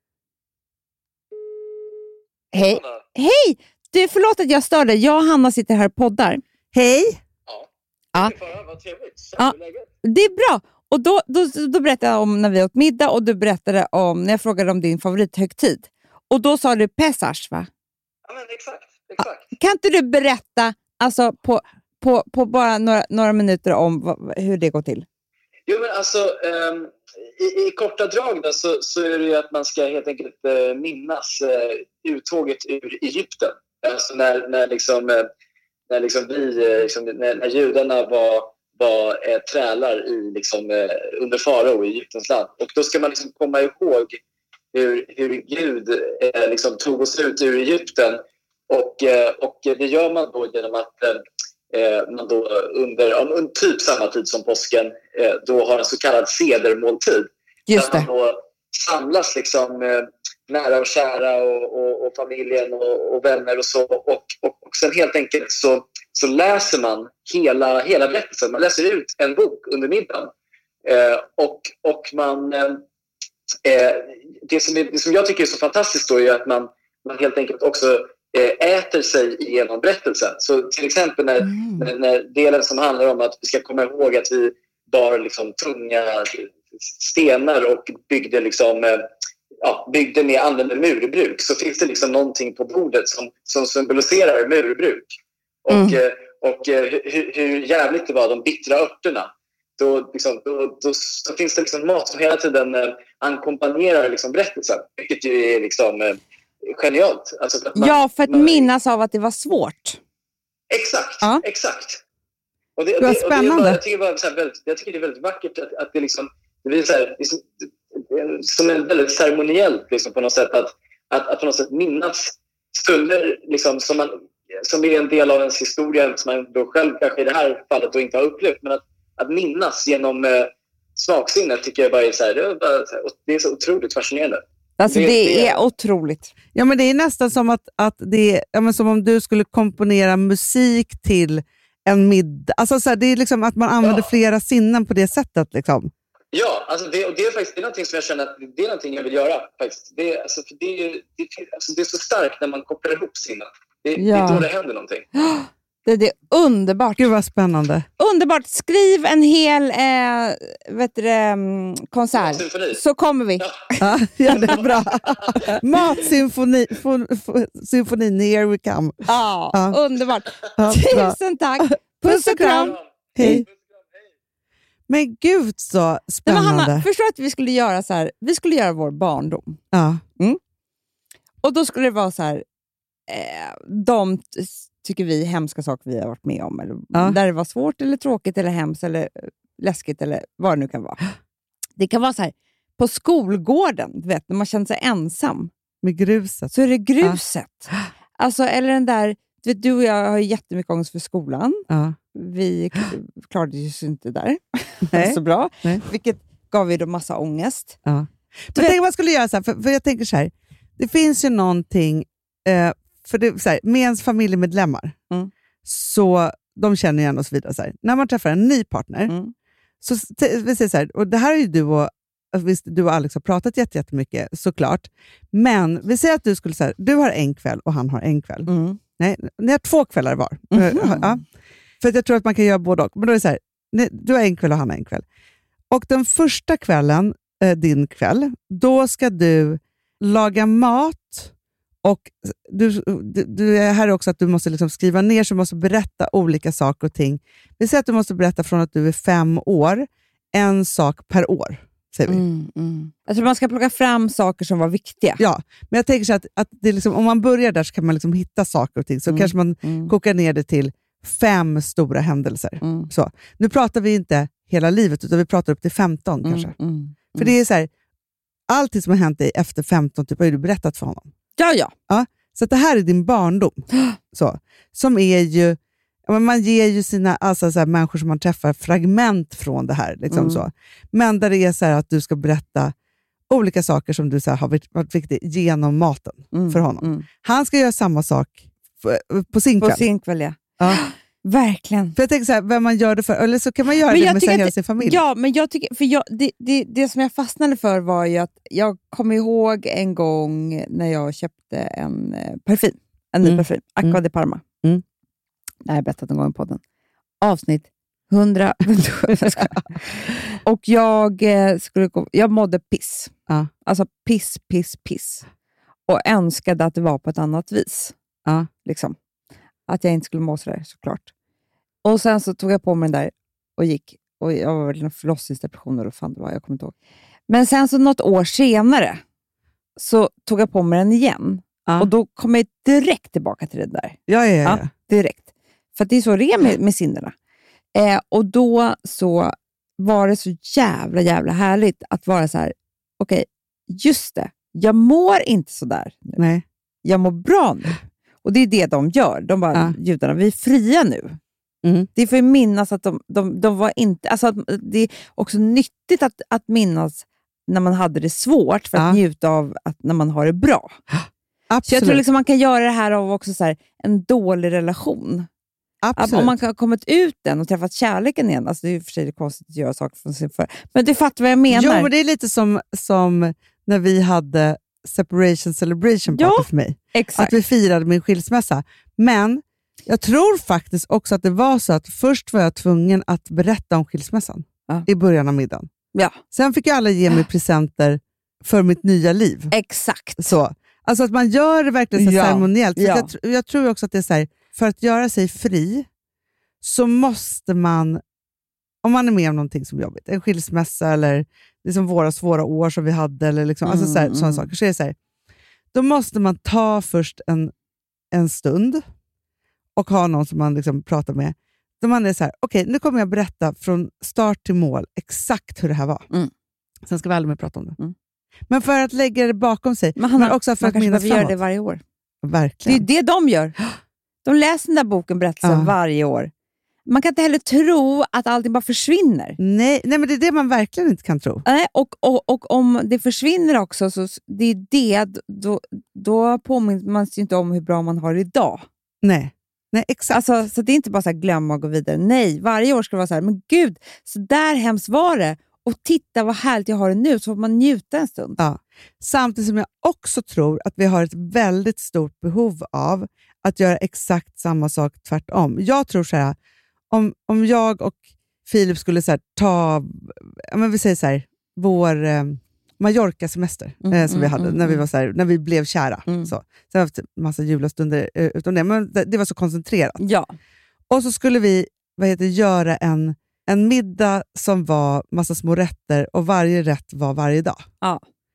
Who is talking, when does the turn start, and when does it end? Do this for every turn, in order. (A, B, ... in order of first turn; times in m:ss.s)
0:02.5-0:06.4 A
0:02.6-0:03.0 B
0:06.7-0:07.2 C
0:07.5-0:09.9 B
0:09.4-0:17.7 A
0:18.3-0:19.4 B
0:19.5-0:25.0 A
0:25.7-0:35.3 B
0:35.9-0:44.2 B
0:44.7-0:51.2 B
0:51.7-1:10.3 B
0:57.7-0:58.1 A
1:10.8-1:12.8 B
1:13.6-1:29.0 B
1:21.4-1:21.9 A
1:29.6-1:35.1 B
1:35.6-1:48.7 B
1:35.7-1:36.0 A
1:47.7-1:50.0 A
1:50.7-1:52.0 B
1:52.8-2:15.6 B
1:53.0-1:53.8 C
2:14.8-2:16.3 A
2:16.5-2:25.9 C
2:26.3-2:35.0 B
2:34.0-2:34.5 A
2:35.1-2:37.1 A
2:37.0-2:37.9 C
2:38.0-2:43.8 A
2:42.2-2:42.8 B
2:43.8-2:49.8 C
2:44.4-2:45.5 B
2:49.0-2:53.4 A
2:50.6-2:53.4 C
2:52.6-2:53.6 B
2:54.9-2:56.9 C
2:56.2-2:59.6 A
2:59.7-3:00.0 C
3:01.4-3:02.4 A
3:03.1-3:11.0 A
3:06.9-3:07.2 C
3:11.8-3:15.5 A
3:15.8-3:17.2 C
3:16.5-3:27.8 A
3:21.7-3:22.0 C
3:24.9-3:25.8 C
3:27.8-3:35.0 C
3:35.6-3:39.1 C
3:39.1-3:39.3 A
3:39.8-3:51.2 C
3:48.5-3:48.8 A
3:50.5-3:51.2 A
3:51.8-3:55.0 C
3:55.7-4:01.3 C
4:01.8-4:12.2 C
4:12.1-4:15.2 A
4:15.2-4:26.5 C
4:19.1-4:19.9 A
4:22.6-4:22.9 A
4:26.2-4:27.3 A
4:27.2-4:27.7 C
4:28.5-4:31.1 C
4:31.4-4:31.7 A
4:31.9-4:42.7 C
4:40.1-4:40.4 A
4:43.3-4:49.8 C
4:46.3-4:47.1 A
4:49.6-4:52.0 A
4:52.0-4:55.0 C
4:53.9-5:04.4 A
5:03.2-5:04.0 C
5:05.6-5:06.6 A
5:07.2-5:09.6 A
5:09.1-5:09.6 C
5:10.4-5:13.1 A
5:13.6-5:15.2 A
5:15.9-5:17.9 A
5:18.6-5:19.0 A
5:19.7-5:21.1 A
5:21.8-5:26.7 A
5:27.3-5:29.0 A
5:29.8-5:37.1 A
5:31.6-5:31.9 C
5:34.1-5:34.7 C
5:37.7-5:46.2 A
5:46.2-5:46.4 C
5:46.8-5:51.2 A
5:51.6-5:51.9 C
5:51.9-6:00.8 A
5:58.7-5:59.0 C
6:00.9-6:02.0 C
6:01.6-6:05.3 A
6:05.8-6:06.4 C
6:06.0-6:11.9 A
6:11.5-6:25.7 C
6:16.1-6:17.3 A
6:26.3-6:29.5 C
6:29.5-6:30.4 A
6:30.2-6:35.9 C
6:32.0-6:33.1 A
6:36.6-6:38.0 C
6:38.8-6:45.0 C
6:43.6-6:44.5 A
6:45.7-6:47.5 C
6:48.1-6:48.8 C
6:49.8-6:56.0 C
6:56.8-6:57.8 C
6:58.5-7:01.4 C
7:00.0-7:01.8 A
7:02.2-7:02.8 C
7:02.6-7:03.6 A
7:04.2-7:06.3 A
7:05.4-7:05.7 C
7:06.8-7:09.4 A
7:09.4-7:11.4 C
7:11.4-7:18.6 A
7:19.0-7:20.2 C
7:20.1-7:28.4 A
7:28.4-7:36.4 C
7:36.9-7:50.0 C
7:43.8-7:44.8 A
7:46.0-7:46.3 A
7:50.0-7:50.3 A
7:50.9-7:57.6 C